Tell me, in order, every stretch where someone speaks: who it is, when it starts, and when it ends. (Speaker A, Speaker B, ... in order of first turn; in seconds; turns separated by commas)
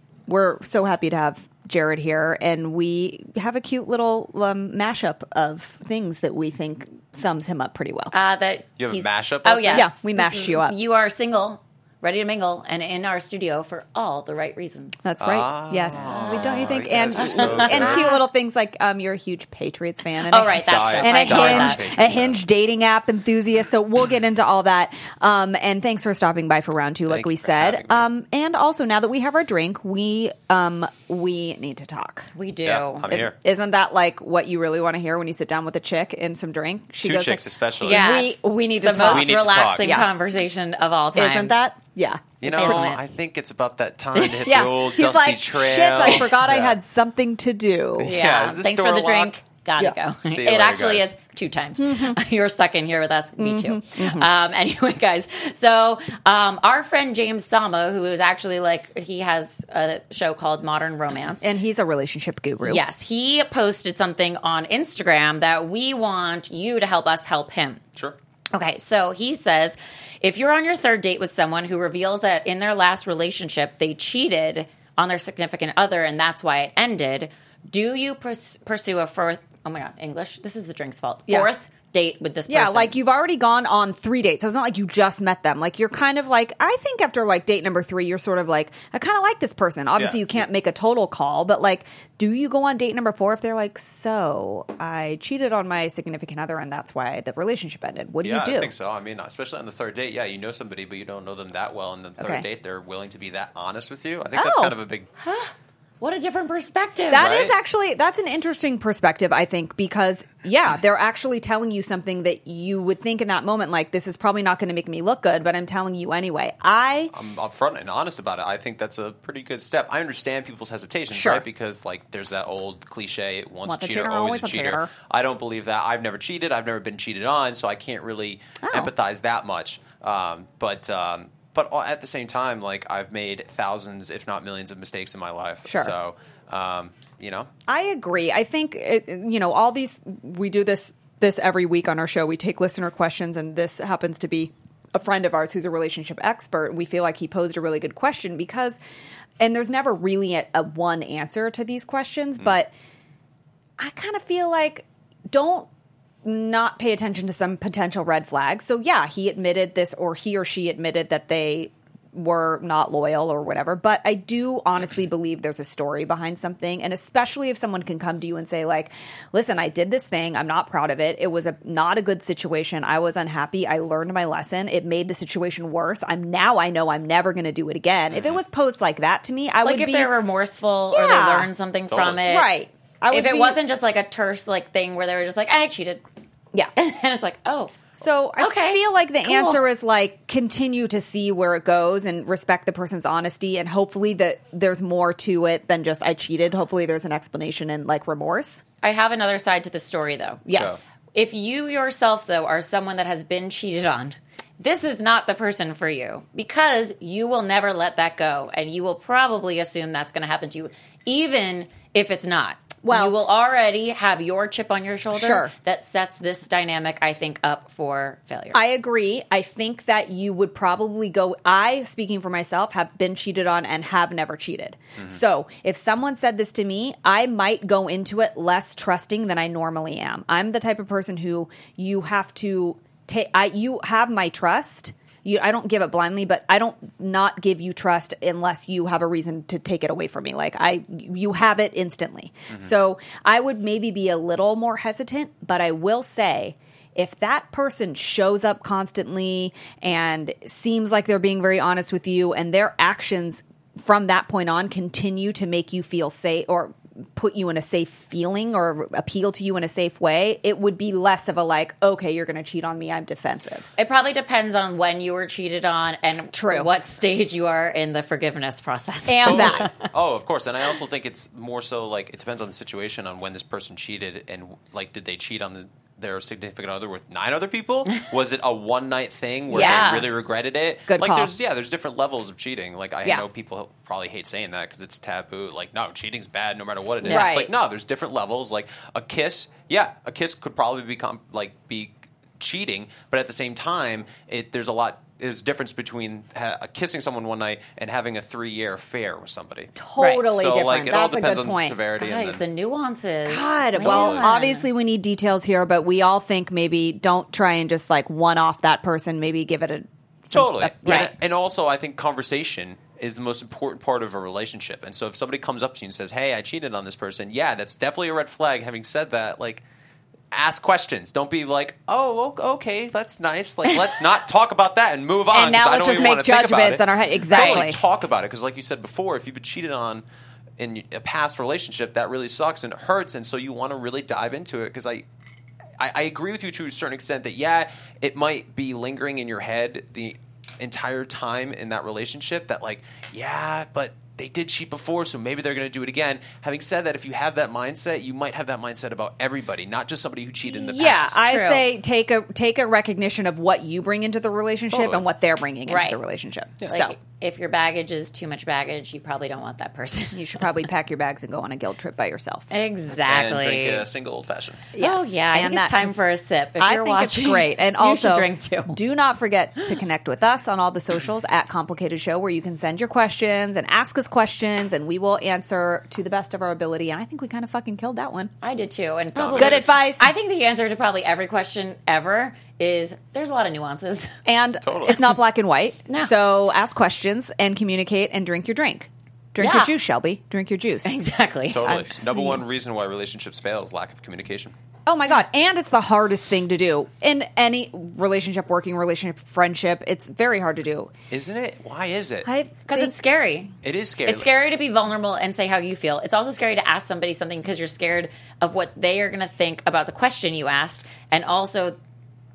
Speaker A: 0.3-8.1, Speaker B: 8.1-15.0, Speaker C: 8.8-9.9, Speaker A: 9.7-10.8, Speaker A: 15.0-32.3, Speaker C: 15.2-18.1, Speaker B: 17.1-18.2, Speaker B: 20.2-21.8, Speaker C: 20.6-22.4, Speaker C: 27.1-28.1, Speaker B: 32.4-33.1, Speaker C: 32.6-33.4, Speaker A: 33.1-40.1, Speaker C: 37.0-38.1, Speaker B: 37.8-41.5, Speaker C: 39.0-40.0, Speaker A: 41.1-42.9, Speaker C: 42.4-46.8, Speaker B: 42.4-43.0, Speaker A: 44.4-48.1, Speaker C: 48.0-49.4, Speaker B: 48.0-61.5, Speaker C: 50.2-51.1, Speaker A: 51.8-52.2, Speaker A: 53.4-54.3, Speaker A: 61.4-62.8, Speaker B: 62.6-67.8, Speaker B: 68.5-83.0, Speaker A: 82.5-98.7, Speaker C: 90.0-90.4, Speaker C: 98.2-105.1, Speaker A: 102.2-102.5, Speaker A: 104.3-104.8, Speaker B: 105.2-107.3, Speaker A: 107.1-117.1, Speaker C: 107.1-107.5, Speaker C: 117.1-137.5, Speaker A: 121.1-121.4, Speaker A: 123.7-124.9, Speaker A: 128.6-128.9, Speaker A: 135.7-135.9, Speaker A: 137.7-148.8, Speaker A: 149.4-152.7, Speaker A: 153.8-155.7, Speaker A: 156.2-180.1, Speaker C: 178.1-178.4, Speaker B: 179.6-182.5, Speaker A: 180.9-181.5, Speaker C: 181.9-182.2, Speaker A: 182.3-183.6, Speaker B: 183.1-186.0, Speaker B: 186.8-187.7, Speaker A: 188.0-198.6, Speaker B: 188.4-189.6, Speaker B: 198.8-200.4, Speaker A: 200.5-200.8, Speaker B: 201.1-218.6, Speaker A: 212.8-213.2, Speaker A: 215.1-215.5, Speaker A: 218.5-263.7, Speaker B: 263.8-269.7, Speaker A: 266.4-266.7, Speaker A: 269.1-269.7, Speaker C: 269.2-299.7, Speaker B: 279.5-280.1, Speaker A: 279.5-280.1, Speaker A: 280.9-281.4, Speaker B: 287.0-287.3, Speaker A: 287.0-287.5, Speaker A: 299.8-301.8, Speaker B: 300.0-300.3, Speaker C: 300.3-302.4, Speaker B: 302.0-304.7, Speaker A: 303.3-311.1, Speaker C: 303.8-304.3, Speaker C: 310.3-319.6, Speaker C: 320.3-330.1, Speaker A: 325.3-327.8, Speaker C: 330.6-335.1, Speaker C: 335.8-351.2, Speaker A: 350.6-356.9, Speaker B: 351.2-351.6, Speaker C: 354.7-355.1, Speaker B: 355.7-356.0, Speaker B: 356.6-360.5, Speaker A: 360.1-362.5, Speaker B: 362.5-363.9, Speaker C: 363.1-364.7, Speaker A: 364.8-365.9, Speaker B: 364.8-368.8, Speaker A: 366.6-378.3, Speaker B: 378.4-384.1, Speaker C: 379.1-379.7, Speaker A: 379.4-380.1, Speaker A: 384.3-390.9, Speaker C: 384.6-385.0, Speaker B: 389.4-389.7, Speaker B: 390.9-391.8, Speaker C: 391.5-394.6, Speaker A: 391.6-392.4, Speaker A: 394.9-400.9, Speaker C: 401.1-402.3, Speaker A: 402.3-403.0, Speaker B: 402.7-403.5, Speaker C: 403.6-404.3, Speaker B: 404.1-411.8